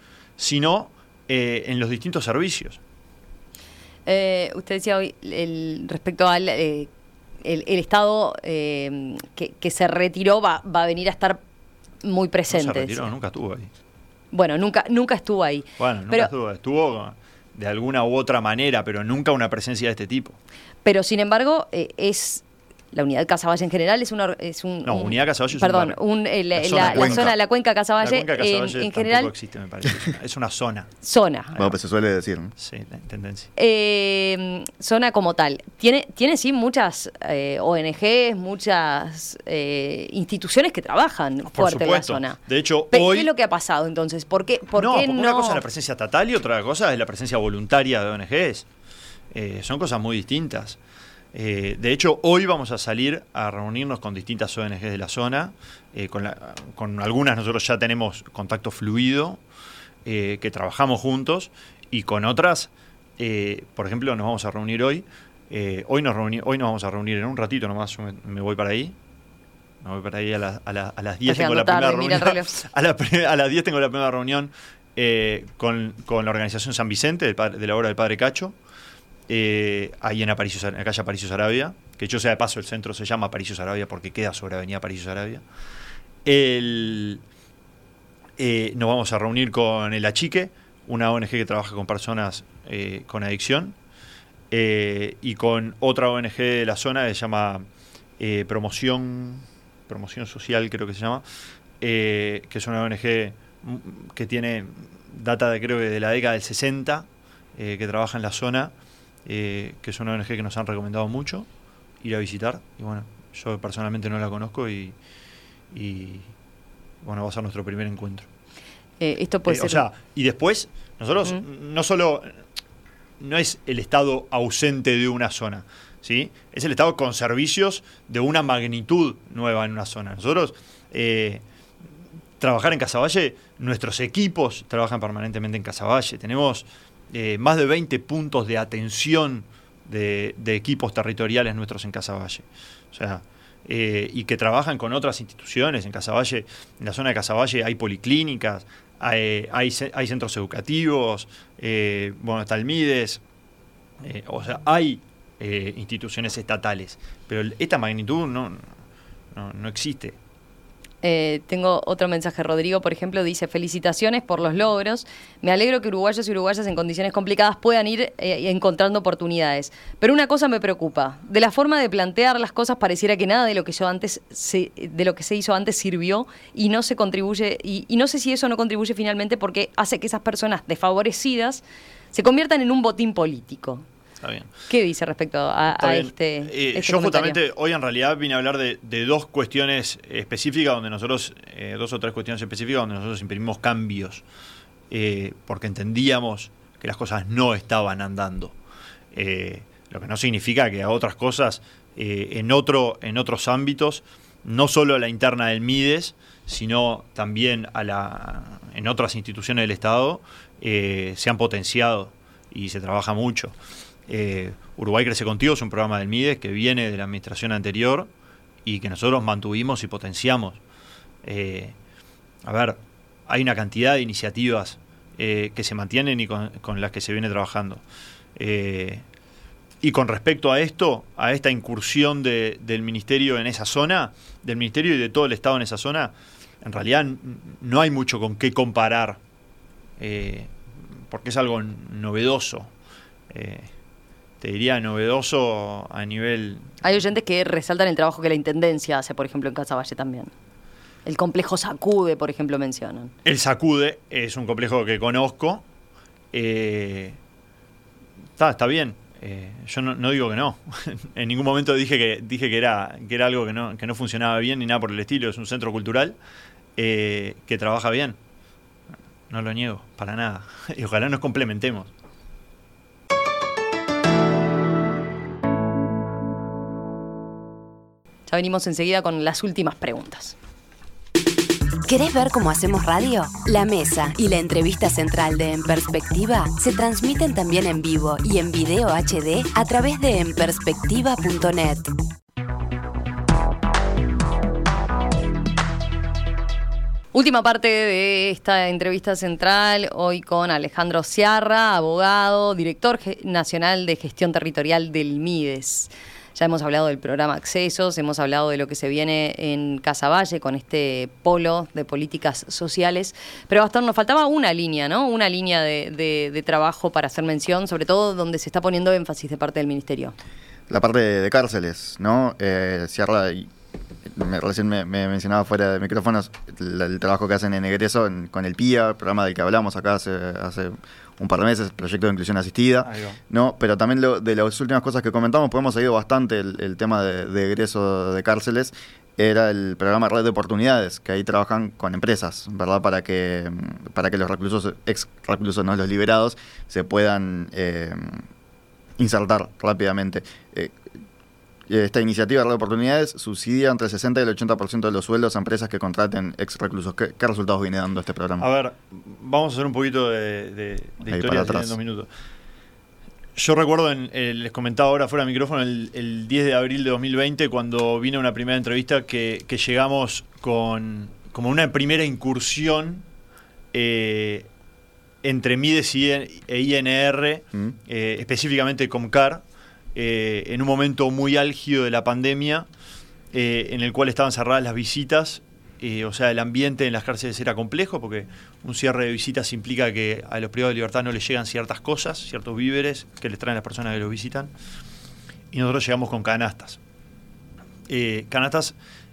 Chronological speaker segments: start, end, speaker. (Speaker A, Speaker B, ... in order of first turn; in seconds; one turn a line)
Speaker A: 0.4-2.8
Speaker B: 4.0-6.9
Speaker B: 7.4-11.4
Speaker B: 12.0-13.0
Speaker A: 12.5-13.7
Speaker B: 14.3-16.3
Speaker A: 15.8-20.4
Speaker B: 20.8-29.3
Speaker A: 24.8-26.0
Speaker A: 26.6-27.3
Speaker A: 28.0-30.9
Speaker B: 31.0-31.6
Speaker C: 31.6-32.5
Speaker A: 32.6-33.5
Speaker B: 33.5-42.4
Speaker A: 41.5-43.3
Speaker B: 42.9-45.6
Speaker A: 44.8-48.6
Speaker A: 49.3-50.8
Speaker A: 51.3-59.4
Speaker A: 60.0-68.9
Speaker A: 69.8-78.5
Speaker B: 71.2-72.6
Speaker A: 79.3-85.4
Speaker A: 86.2-87.2
Speaker A: 88.4-93.8
Speaker A: 94.5-97.6
Speaker A: 98.2-101.2
Speaker A: 101.8-108.7
Speaker A: 109.2-111.5
Speaker A: 112.0-114.9
Speaker A: 115.7-116.3
Speaker A: 117.0-118.2
Speaker B: 119.0-119.9
Speaker A: 119.5-122.3
Speaker A: 123.2-131.4
Speaker A: 132.4-153.2
Speaker A: 154.0-158.7
Speaker A: 159.3-160.2
Speaker B: 161.0-183.8
Speaker A: 184.2-184.5
Speaker B: 184.7-187.4
Speaker A: 185.8-194.2
Speaker A: 194.9-198.5
Speaker A: 199.1-213.5
Speaker A: 214.1-218.1
Speaker A: 218.6-220.6
Speaker A: 221.2-221.8
Speaker A: 222.4-227.8
Speaker A: 228.3-229.0
Speaker A: 229.8-239.2
Speaker A: 240.0-240.5
Speaker A: 241.1-242.7
Speaker A: 243.3-243.7
Speaker A: 244.4-246.8
Speaker B: 246.8-250.3
Speaker B: 251.0-253.1
Speaker A: 253.2-255.6
Speaker A: 256.3-257.2
Speaker A: 258.4-266.1
Speaker A: 266.8-268.2
Speaker A: 269.3-271.9
Speaker B: 278.3-280.3
Speaker D: 281.9-291.9
Speaker B: 297.1-320.1
Speaker C: 320.7-323.5
Speaker C: 324.1-348.2
Speaker A: 332.8-333.2
Speaker C: 349.0-350.7
Speaker C: 351.7-358.5
Speaker A: 358.4-362.1
Speaker C: 361.1-361.7
Speaker A: 363.4-373.0
Speaker A: 373.7-374.5
Speaker A: 375.2-379.4
Speaker A: 379.9-382.6
Speaker A: 383.3-394.5
Speaker A: 395.5-396.8
Speaker A: 397.9-398.7